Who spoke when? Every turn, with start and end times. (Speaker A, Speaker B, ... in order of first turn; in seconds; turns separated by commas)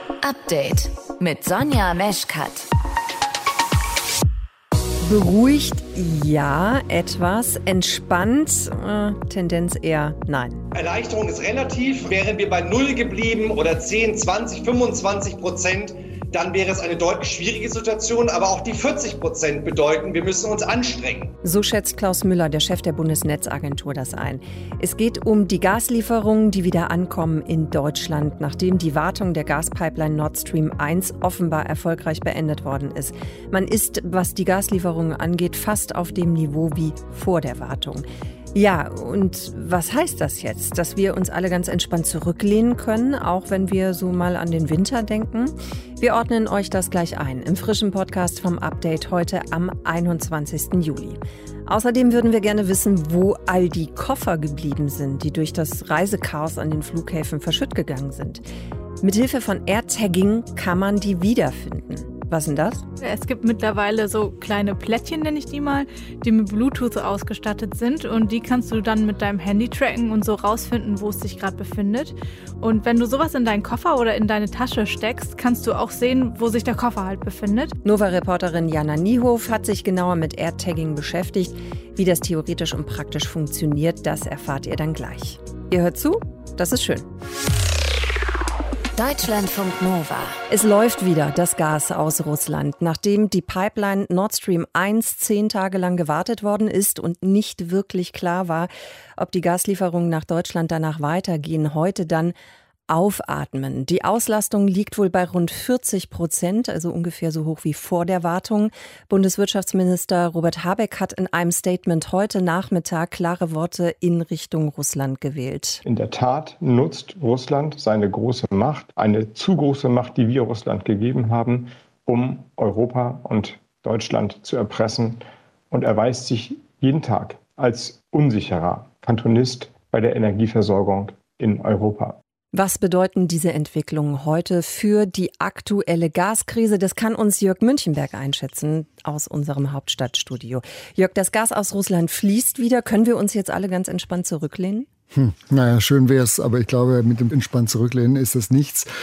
Speaker A: 0.2-2.6, Speaker B: 5.0-10.6, Speaker C: 10.7-21.3, Speaker B: 21.4-58.4, Speaker B: 59.0-62.8, Speaker D: 63.0-77.7, Speaker B: 77.8-87.1, Speaker A: 89.0-90.4, Speaker B: 90.5-102.3, Speaker B: 102.9-115.8, Speaker E: 115.8-132.2, Speaker B: 132.5-144.9, Speaker F: 145.1-148.9